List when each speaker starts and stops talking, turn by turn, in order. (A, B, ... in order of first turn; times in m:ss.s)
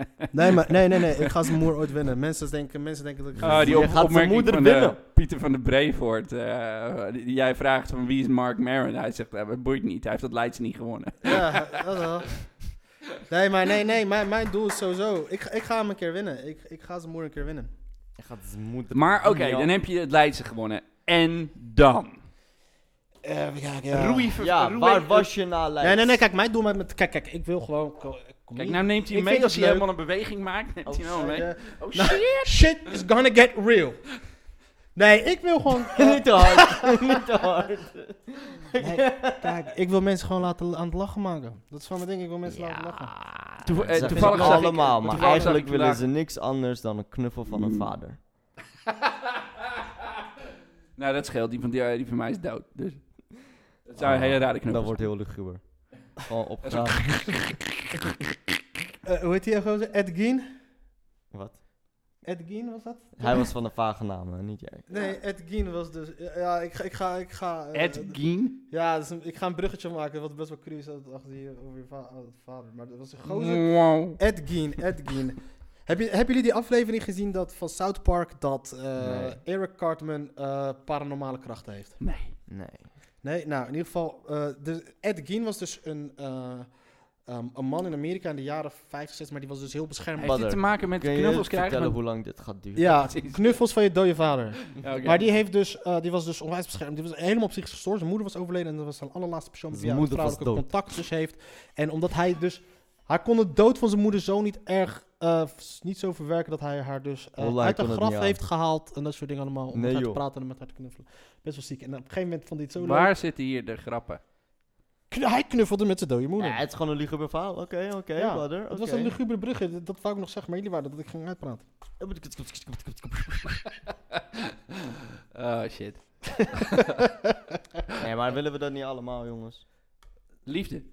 0:00.3-0:04.0 A
0:03.4-0:05.0 B
0:03.4-0:11.8 C
0:11.2-0:12.5 A
0:13.3-0:17.7 A
0:18.2-0:19.7 B
0:18.9-0:22.2 C
0:23.2-0:24.3 A
0:23.9-0:25.3 C
0:24.4-0:26.2 B
0:25.8-0:29.9 A
0:28.6-0:32.8 C
0:30.8-0:31.4 B
0:31.2-0:34.1 A
0:34.9-0:37.0 A
0:36.0-0:39.6 B
0:38.8-0:43.3 A
0:42.4-0:48.2 B
0:43.6-0:46.0 C
0:43.9-0:45.6 A
0:51.0-0:55.1 C
0:54.0-0:57.3 B
0:56.6-0:58.1 C
0:59.0-1:00.5 A
1:01.3-1:01.6 B
1:02.2-1:03.5 A
1:03.2-1:04.9 B
1:04.9-1:08.2 A
1:07.7-1:08.6 C
1:08.7-1:22.0 A
1:13.2-1:14.2 C
1:19.0-1:19.4 B
1:22.0-1:22.3 C
1:22.5-1:22.9 B
1:23.2-1:30.5 A
1:30.2-1:32.0 C
1:30.2-1:33.0 B
1:32.8-1:53.1 A
1:33.1-1:33.5 C
1:34.7-1:35.2 C
1:39.7-1:40.7 B
1:47.4-1:48.4 B
1:49.7-1:50.2 B
1:52.8-1:54.2 C
1:55.1-1:56.6 A
1:56.4-1:59.1 B
1:58.2-2:01.6 A
2:02.0-2:03.6 B
2:04.1-2:06.9 C
2:08.0-2:09.6 B
2:10.4-2:10.8 C